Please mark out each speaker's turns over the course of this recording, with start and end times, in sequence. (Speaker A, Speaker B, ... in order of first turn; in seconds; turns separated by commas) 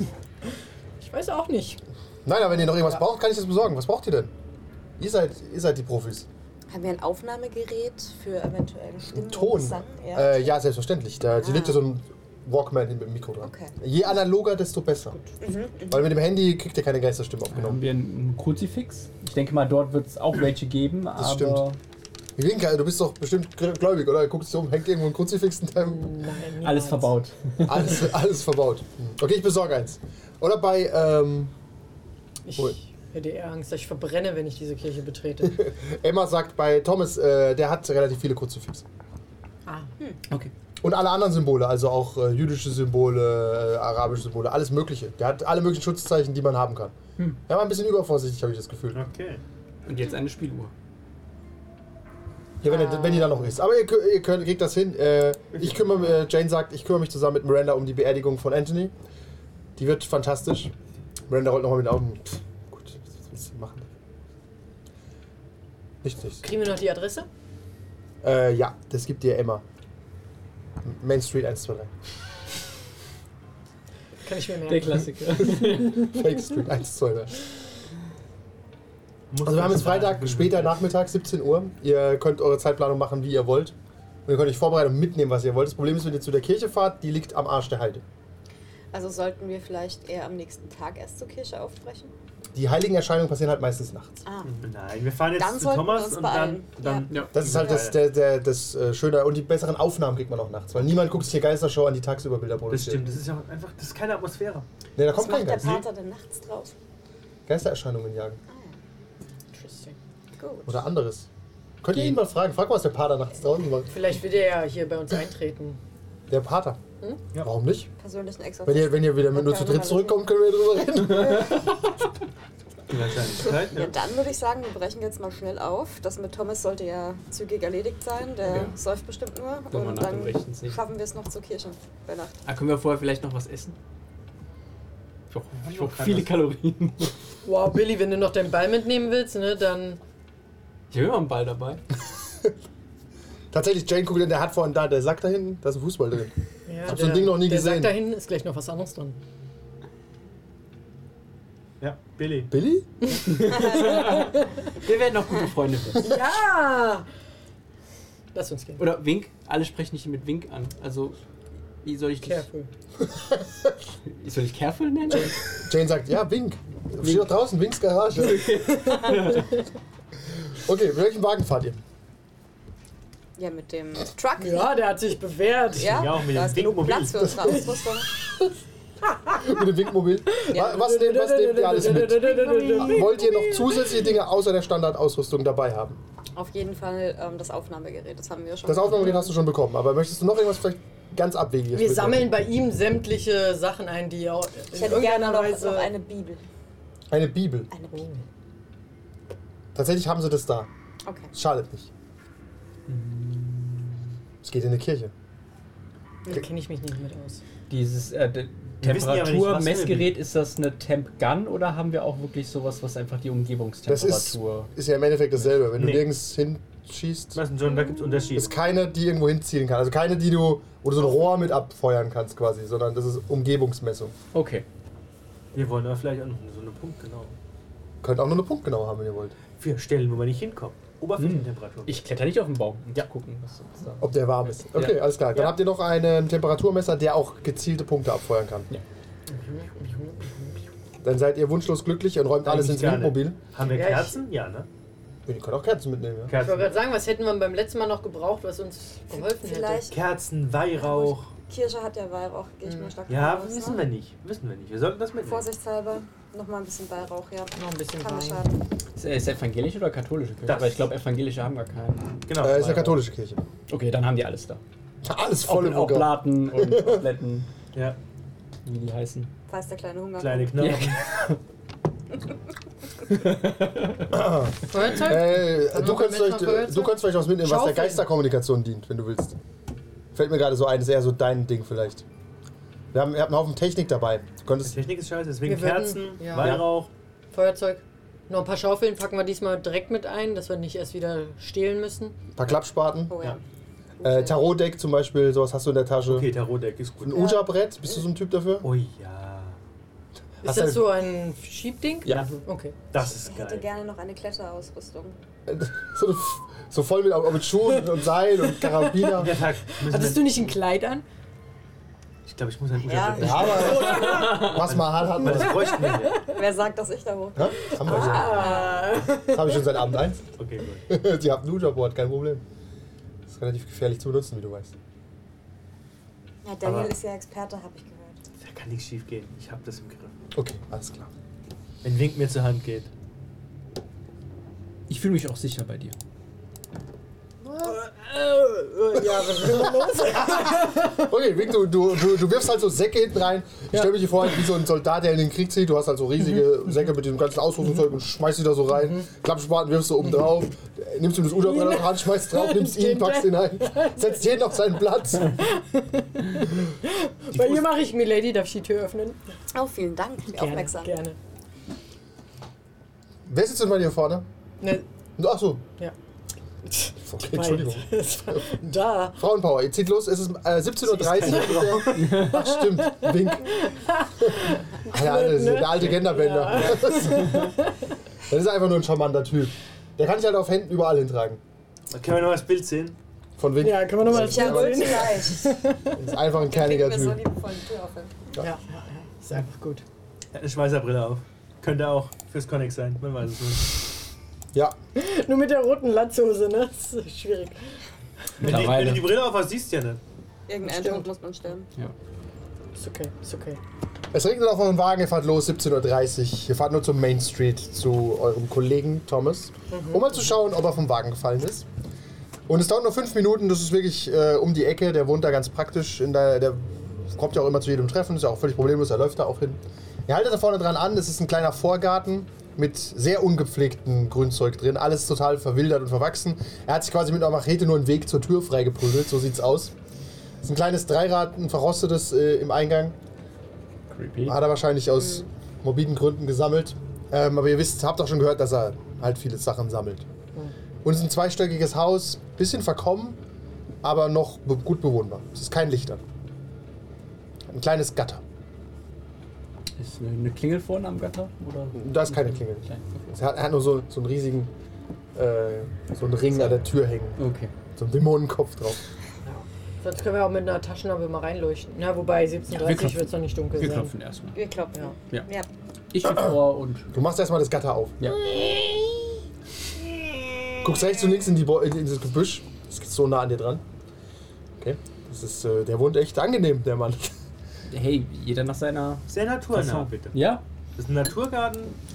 Speaker A: 1.0-1.8, Speaker B: 2.2-4.3, Speaker A: 2.6-3.0, Speaker B: 5.0-6.3, Speaker C: 6.7-10.5, Speaker B: 9.1-15.2, Speaker C: 11.4-11.8, Speaker C: 13.4-13.7, Speaker C: 15.4-16.1, Speaker B: 15.9-17.8, Speaker D: 17.5-21.8, Speaker B: 21.1-21.6, Speaker B: 22.4-26.1, Speaker A: 25.8-27.1, Speaker D: 26.6-28.0, Speaker B: 27.6-31.5, Speaker A: 32.5-35.6, Speaker B: 35.4-38.8, Speaker A: 39.6-39.9, Speaker B: 40.8-46.9, Speaker B: 47.5-49.0, Speaker E: 48.9-49.4, Speaker D: 49.9-50.7, Speaker B: 52.6-58.9, Speaker A: 52.7-53.3, Speaker B: 59.8-60.7, Speaker B: 61.3-63.9, Speaker B: 66.0-66.4, Speaker A: 66.4-67.3, Speaker B: 68.2-69.6, Speaker B: 70.8-71.9, Speaker A: 74.2-75.3, Speaker D: 74.7-76.3, Speaker B: 75.5-77.5, Speaker E: 79.3-80.8, Speaker B: 79.4-83.7, Speaker B: 84.2-88.0, Speaker C: 88.9-92.1, Speaker B: 92.5-94.2, Speaker C: 94.2-94.6, Speaker E: 94.5-98.0, Speaker C: 95.3-97.8, Speaker B: 97.3-103.2, Speaker E: 102.7-104.7, Speaker B: 105.0-105.8, Speaker C: 105.1-106.7, Speaker B: 107.5-108.4, Speaker C: 108.5-108.7, Speaker A: 109.5-110.0, Speaker C: 110.3-110.8, Speaker B: 110.7-111.3, Speaker B: 111.8-113.9, Speaker A: 113.9-115.8, Speaker B: 116.3-116.8, Speaker B: 117.4-117.9, Speaker C: 118.0-120.2, Speaker B: 118.6-121.7, Speaker C: 121.0-121.7, Speaker E: 122.9-123.9, Speaker C: 123.4-132.3, Speaker D: 128.4-128.7, Speaker D: 129.7-130.8, Speaker D: 132.4-133.8, Speaker D: 135.3-137.1, Speaker E: 135.5-136.3, Speaker A: 137.4-140.0, Speaker D: 140.9-141.8, Speaker B: 143.5-146.3, Speaker A: 146.7-149.2, Speaker B: 146.8-147.9, Speaker E: 151.8-152.5, Speaker B: 152.5-152.9, Speaker A: 153.1-154.5, Speaker D: 153.2-156.1, Speaker C: 153.6-154.2, Speaker A: 156.0-157.1, Speaker A: 158.3-158.8, Speaker D: 158.8-161.2, Speaker D: 161.8-162.4, Speaker A: 162.2-162.7, Speaker B: 163.1-163.7, Speaker D: 164.1-165.5, Speaker B: 165.5-168.6, Speaker D: 167.0-167.3, Speaker D: 168.1-169.6, Speaker A: 168.7-169.5, Speaker B: 170.5-171.8, Speaker C: 173.4-174.7, Speaker A: 174.4-176.1, Speaker C: 175.7-178.1, Speaker E: 175.8-177.5, Speaker B: 177.4-178.5, Speaker B: 179.3-186.0, Speaker A: 180.3-184.0, Speaker C: 182.5-182.9, Speaker C: 186.3-189.3, Speaker B: 188.6-192.4, Speaker A: 191.7-195.9, Speaker C: 194.7-196.5, Speaker B: 197.1-197.7, Speaker C: 197.7-198.1, Speaker A: 197.9-198.2, Speaker B: 199.7-200.7, Speaker C: 201.0-201.3, Speaker B: 201.3-201.9, Speaker D: 202.9-203.9, Speaker B: 204.4-205.1, Speaker A: 206.3-207.4, Speaker D: 207.7-214.7, Speaker E: 208.8-210.1, Speaker B: 213.9-217.4, Speaker E: 215.7-216.1, Speaker E: 217.3-218.6, Speaker B: 218.3-224.1, Speaker D: 224.3-224.7, Speaker E: 225.5-227.3, Speaker B: 228.0-229.3, Speaker E: 229.6-232.0, Speaker D: 231.2-235.2, Speaker B: 234.0-238.7, Speaker A: 239.3-240.6, Speaker B: 241.0-243.4, Speaker E: 242.4-244.7, Speaker A: 243.6-244.2, Speaker B: 245.2-246.3, Speaker E: 246.3-246.8, Speaker A: 246.4-249.9, Speaker C: 249.1-250.0, Speaker E: 249.9-251.3, Speaker C: 250.8-253.9, Speaker A: 252.7-252.9, Speaker E: 253.1-255.5, Speaker C: 255.2-258.6, Speaker A: 257.6-258.4, Speaker D: 258.9-263.0, Speaker E: 260.4-260.9, Speaker E: 262.3-262.7, Speaker B: 262.4-263.4, Speaker D: 263.7-264.6, Speaker B: 265.0-267.0, Speaker D: 265.4-267.5, Speaker D: 268.6-269.3, Speaker C: 269.5-270.8, Speaker E: 270.2-271.0, Speaker D: 270.6-271.4, Speaker D: 273.1-274.1, Speaker B: 274.1-279.4, Speaker A: 274.7-278.1, Speaker B: 280.1-282.0, Speaker B: 282.9-284.8, Speaker E: 284.6-286.9, Speaker A: 285.4-286.7, Speaker B: 286.4-286.7, Speaker A: 287.3-292.1, Speaker B: 292.4-293.1, Speaker C: 293.1-293.4, Speaker C: 294.0-294.4, Speaker B: 294.0-296.3, Speaker E: 296.1-297.3, Speaker B: 297.0-298.7, Speaker C: 297.1-297.5, Speaker E: 298.6-299.6, Speaker B: 300.4-300.9, Speaker A: 300.4-302.8, Speaker D: 302.1-302.3, Speaker E: 302.9-303.7, Speaker C: 303.0-305.2, Speaker B: 305.5-309.4, Speaker A: 308.4-311.0, Speaker E: 309.2-310.5, Speaker E: 312.2-316.3, Speaker C: 312.8-314.4, Speaker B: 313.1-315.8, Speaker A: 313.7-314.4, Speaker D: 313.9-314.6, Speaker A: 315.3-316.4, Speaker C: 316.2-319.1, Speaker B: 317.4-320.2, Speaker A: 317.7-319.7, Speaker E: 320.4-320.9, Speaker B: 320.9-322.4, Speaker B: 323.3-324.7, Speaker C: 326.4-328.2, Speaker E: 326.6-326.9, Speaker E: 328.4-330.1, Speaker B: 330.3-331.1, Speaker E: 331.8-332.9, Speaker D: 334.9-335.9, Speaker A: 338.1-341.1, Speaker B: 338.9-355.4, Speaker A: 351.4-354.3, Speaker A: 355.4-359.2, Speaker E: 357.4-357.6, Speaker C: 359.5-361.0, Speaker A: 360.3-361.2, Speaker B: 363.3-364.2, Speaker A: 364.6-364.9, Speaker B: 365.2-365.6, Speaker A: 366.6-369.2, Speaker B: 367.0-368.5, Speaker B: 369.1-373.6, Speaker E: 370.9-371.9, Speaker A: 371.2-377.8, Speaker D: 372.0-372.3, Speaker B: 374.2-377.5, Speaker B: 378.3-381.4, Speaker E: 381.9-383.0, Speaker B: 383.4-385.2, Speaker A: 383.6-385.9, Speaker C: 384.1-385.6, Speaker B: 385.9-387.2, Speaker C: 386.3-388.3, Speaker A: 388.4-389.8, Speaker E: 390.3-393.8, Speaker A: 394.9-397.8, Speaker D: 398.4-399.1, Speaker E: 398.4-400.0, Speaker C: 400.5-401.7, Speaker A: 400.6-401.1, Speaker A: 402.8-403.6, Speaker B: 404.1-411.7, Speaker A: 409.7-410.1, Speaker B: 412.5-429.7, Speaker B: 430.4-433.0, Speaker D: 433.9-434.4, Speaker B: 434.2-440.1, Speaker C: 435.0-435.3, Speaker B: 440.8-443.2, Speaker B: 443.8-446.0, Speaker B: 447.5-448.2, Speaker D: 449.8-453.1, Speaker B: 451.7-454.5, Speaker B: 455.1-457.2, Speaker D: 457.2-457.5, Speaker B: 457.8-458.8, Speaker A: 459.2-463.9, Speaker D: 462.6-464.4, Speaker C: 464.3-465.5, Speaker D: 465.9-466.9, Speaker B: 466.0-466.3, Speaker B: 466.9-468.2, Speaker D: 468.0-468.4, Speaker B: 470.6-473.6, Speaker B: 474.6-477.1, Speaker D: 477.7-480.4, Speaker E: 479.1-481.8